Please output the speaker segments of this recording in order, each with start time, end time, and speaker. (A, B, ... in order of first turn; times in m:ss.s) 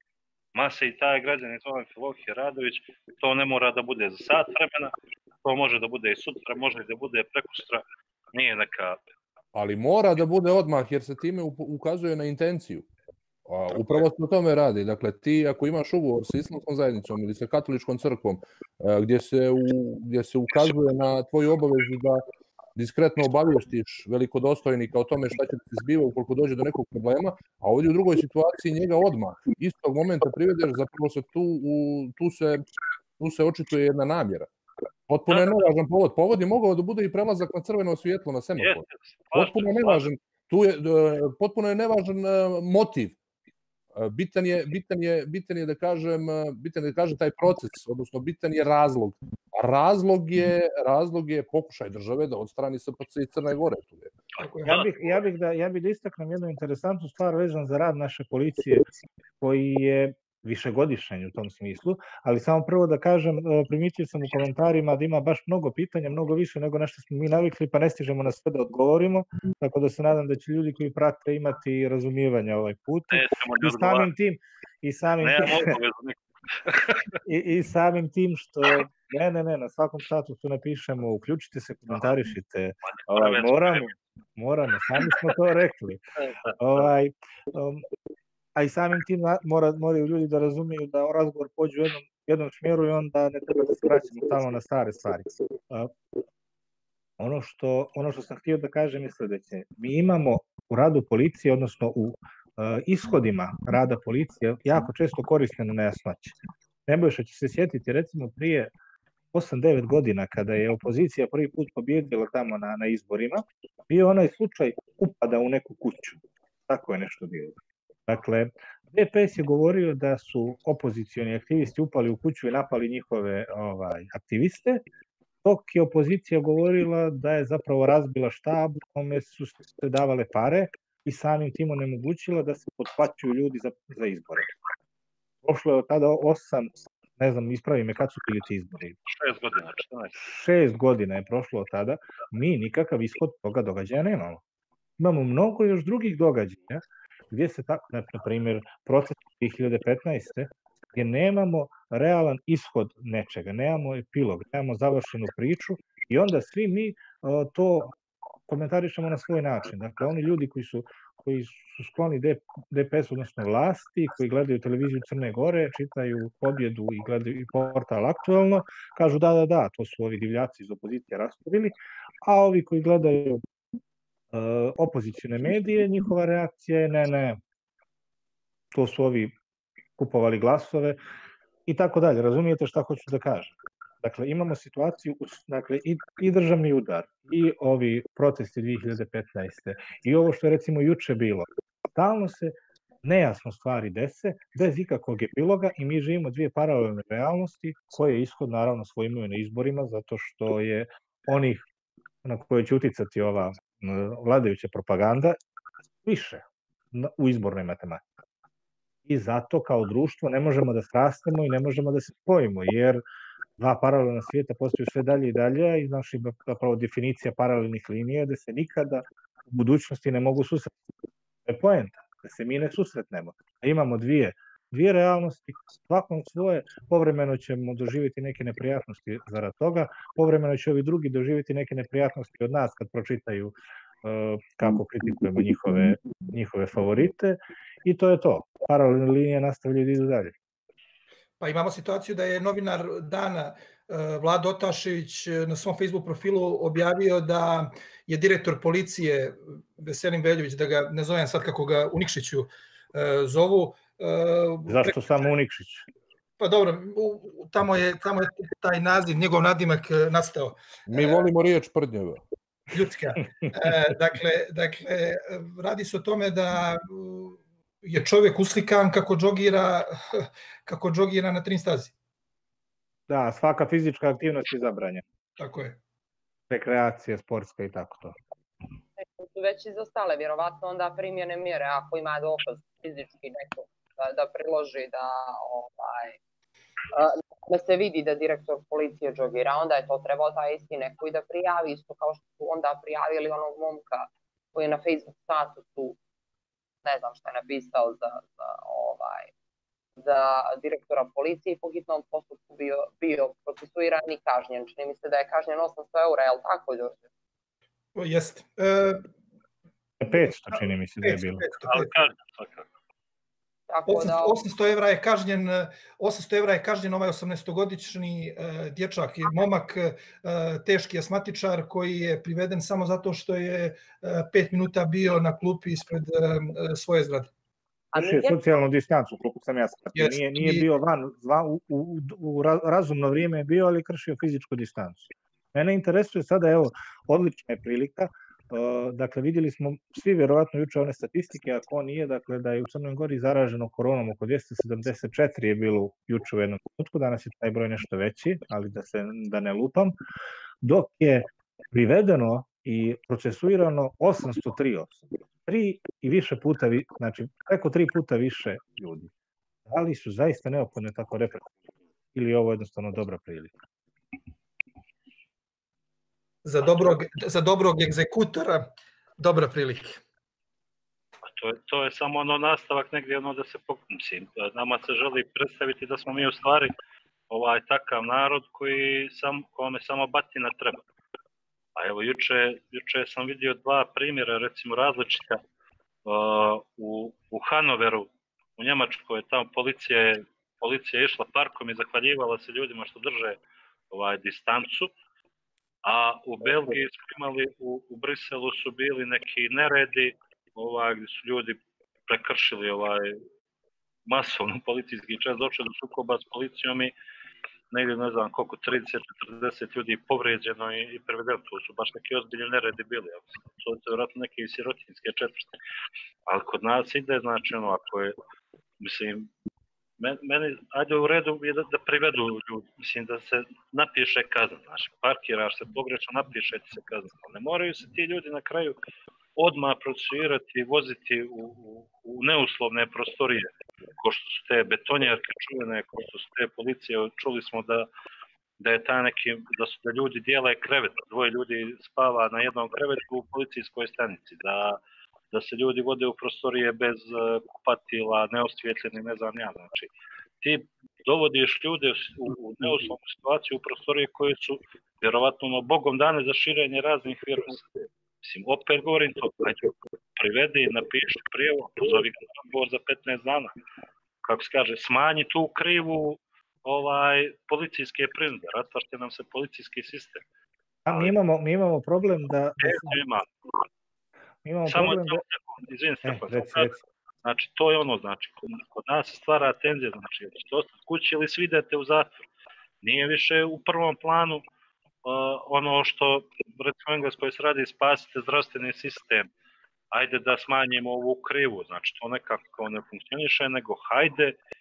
0:00.5-0:09.0 A
0:09.5-0:12.9 B
0:13.5-0:22.2 B
0:22.8-0:32.6 B
0:33.2-0:34.5 B
0:35.1-0:43.2 B
0:35.3-0:35.6 A
0:38.6-0:40.0 A
0:44.0-0:54.1 B
0:54.4-0:54.8 C
0:54.4-0:55.2 A
0:54.6-0:58.9 D
0:59.4-1:15.8 D
1:13.1-1:14.1 A
1:15.2-1:17.2 A
1:17.2-1:26.0 D
1:23.0-1:23.9 A
1:26.6-1:27.8 D
1:28.6-1:35.9 D
1:37.2-1:48.7 D
1:49.3-1:57.6 D
1:58.1-2:04.8 D
2:05.4-2:14.5 D
2:15.4-2:19.0 D
2:19.1-2:20.2 A
2:20.2-2:24.4 D
2:25.0-2:37.9 D
2:38.5-2:53.4 D
2:54.3-2:57.4 D
2:58.7-2:59.4 D
3:00.0-3:01.0 D
3:01.7-3:21.6 D
3:22.2-3:25.4 D
3:26.0-3:28.0 D
3:29.1-3:33.0 D
3:33.6-3:40.7 D
3:41.5-4:00.4 D
4:01.4-4:15.2 C
4:14.7-4:15.9 D
4:16.4-4:21.2 C
4:20.9-4:22.2 B
4:22.7-4:31.9 C
4:33.1-4:35.0 D
4:35.4-4:35.8 C
4:36.5-4:38.2 D
4:39.0-4:46.2 E
4:46.9-4:56.0 E
4:56.8-4:59.3 E
5:00.0-5:07.0 E
5:08.0-5:09.0 C
5:10.0-5:11.4 D
5:11.0-5:11.9 C
5:11.7-5:12.7 A
5:13.7-5:14.4 E
5:13.9-5:27.3 C
5:27.9-5:28.4 E
5:28.0-5:49.9 D
5:30.0-5:30.7 C
5:50.6-5:59.1 D
5:59.7-6:01.6 D
6:02.1-6:03.5 D
6:06.4-6:10.0 C
6:11.4-6:16.7 A
6:17.3-6:20.8 A
6:21.8-6:25.4 A
6:26.0-6:33.4 A
6:33.9-6:34.9 A
6:35.8-6:43.2 A
6:44.1-6:46.9 A
6:47.7-6:55.6 A
6:56.3-6:58.2 A
6:58.8-6:59.3 A
7:00.0-7:08.8 A
7:09.4-7:17.9 A
7:18.6-7:24.8 A
7:25.3-7:29.9 A
7:30.4-7:37.7 A
7:38.2-7:43.5 A
7:44.2-7:50.2 A
7:50.9-7:53.0 D
7:52.6-7:53.3 A
7:54.4-7:55.2 D
7:54.7-8:02.1 A
7:56.0-7:56.8 D
8:02.8-8:04.4 A
8:05.0-8:09.3 A
8:09.9-8:14.4 A